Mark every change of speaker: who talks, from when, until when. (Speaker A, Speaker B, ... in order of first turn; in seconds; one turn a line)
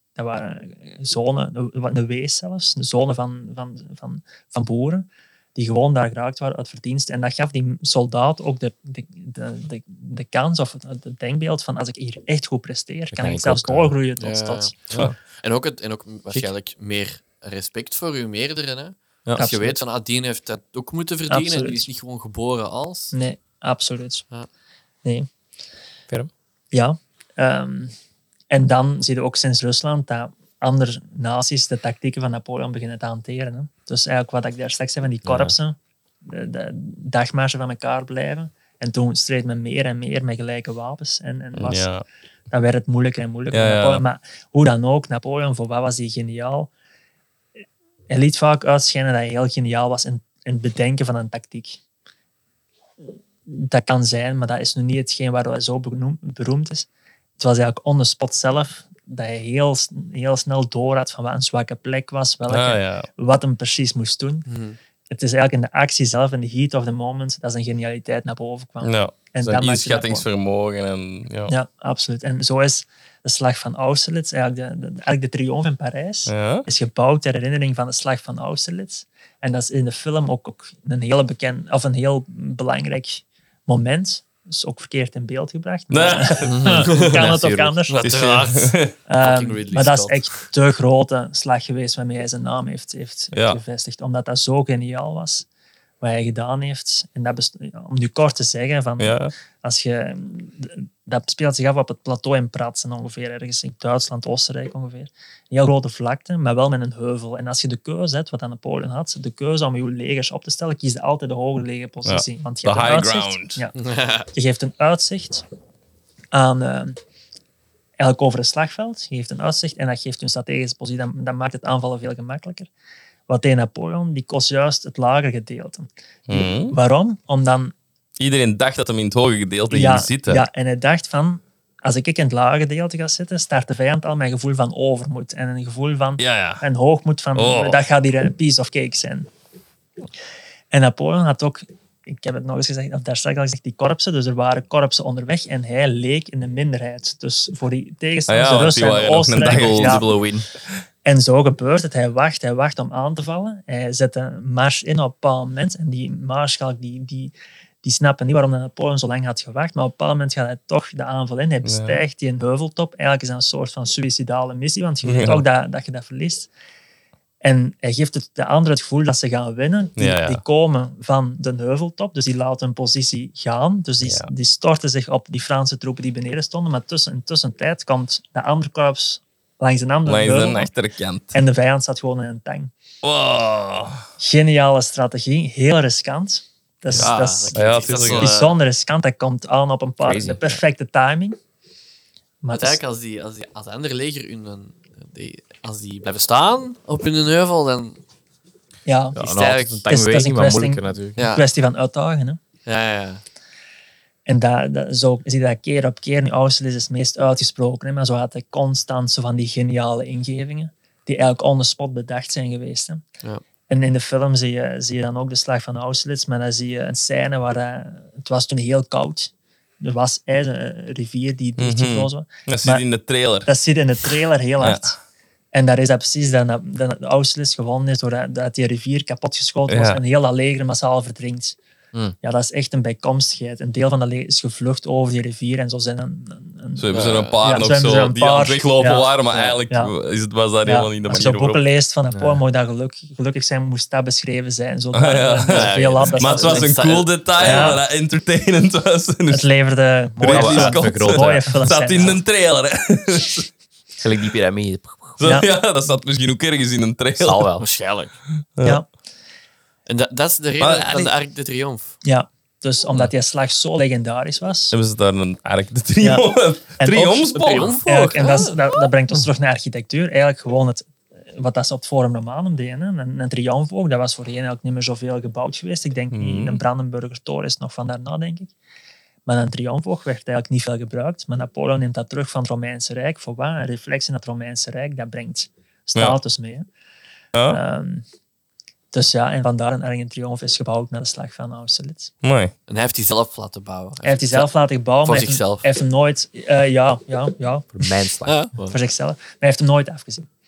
Speaker A: 0.2-14.8
Speaker B: 13.1-14.0
Speaker C: 14.2-23.1
Speaker A: 19.4-19.8
Speaker A: 21.3-21.9
Speaker A: 23.1-24.3
Speaker A: 26.7-27.9
Speaker A: 28.5-41.9
Speaker B: 35.2-35.5
Speaker D: 41.6-42.0
Speaker A: 42.5-46.7
Speaker D: 43.5-44.0
Speaker A: 48.1-51.8
Speaker A: 53.5-56.9
Speaker A: 57.4-64.5
Speaker D: 62.5-63.1
Speaker C: 64.5-64.8
Speaker A: 65.1-70.3
Speaker D: 68.8-71.5
Speaker A: 71.5-88.1
Speaker D: 76.3-76.7
Speaker D: 85.9-86.9
Speaker C: 86.5-87.3
Speaker B: 86.7-87.9
Speaker C: 87.9-90.4
Speaker D: 88.1-88.9
Speaker A: 89.1-95.5
Speaker D: 93.3-93.6
Speaker A: 96.0-115.4
Speaker D: 99.0-99.3
Speaker D: 112.1-113.6
Speaker C: 113.8-114.3
Speaker A: 116.3-117.0
Speaker A: 118.0-122.7
Speaker A: 123.3-127.7
Speaker D: 126.3-126.8
Speaker D: 128.2-130.4
Speaker A: 129.7-139.3
Speaker D: 136.2-136.6
Speaker D: 137.3-137.8
Speaker A: 140.7-150.1
Speaker D: 148.3-150.3
Speaker B: 149.5-150.5
Speaker A: 151.1-166.5
Speaker D: 161.6-162.0
Speaker D: 165.0-165.4
Speaker A: 167.4-180.7
Speaker D: 170.0-170.4
Speaker D: 174.0-174.3
Speaker D: 180.1-181.4
Speaker A: 181.3-182.7
Speaker D: 183.0-184.0
Speaker A: 184.2-191.4
Speaker C: 186.9-188.5
Speaker D: 187.0-188.3
Speaker B: 190.0-190.6
Speaker A: 192.4-192.8
Speaker C: 192.5-198.0
Speaker A: 198.9-199.2
Speaker B: 199.2-201.2
Speaker C: 199.2-199.9
Speaker A: 199.9-202.4
Speaker C: 201.2-201.4
Speaker C: 202.7-203.2
Speaker A: 204.3-213.0
Speaker A: 213.7-222.8
Speaker D: 221.6-223.5
Speaker A: 223.4-225.0
Speaker D: 224.6-225.0
Speaker A: 225.5-231.6
Speaker D: 229.7-230.0
Speaker A: 232.2-239.9
Speaker D: 236.8-241.6
Speaker C: 236.9-237.3
Speaker A: 240.6-246.7
Speaker D: 244.9-249.5
Speaker C: 245.5-247.8
Speaker A: 247.4-247.8
Speaker A: 249.3-252.2
Speaker B: 250.2-251.7
Speaker D: 250.2-253.5
Speaker B: 254.0-255.2
Speaker D: 255.2-257.6
Speaker A: 255.2-255.5
Speaker B: 257.2-258.1
Speaker C: 257.6-258.1
Speaker D: 258.6-258.8
Speaker A: 258.6-258.9
Speaker C: 259.9-262.0
Speaker D: 260.6-261.1
Speaker A: 262.0-264.8
Speaker D: 264.7-267.8
Speaker A: 266.0-266.3
Speaker A: 266.8-278.5
Speaker C: 267.4-268.7
Speaker D: 276.1-276.6
Speaker A: 279.3-286.7
Speaker D: 287.3-287.6
Speaker A: 287.5-288.1
Speaker A: 288.9-292.1
Speaker D: 292.2-292.5
Speaker C: 292.7-295.7
Speaker A: 294.0-297.9
Speaker B: 297.7-298.8
Speaker C: 298.2-298.6
Speaker A: 298.7-300.3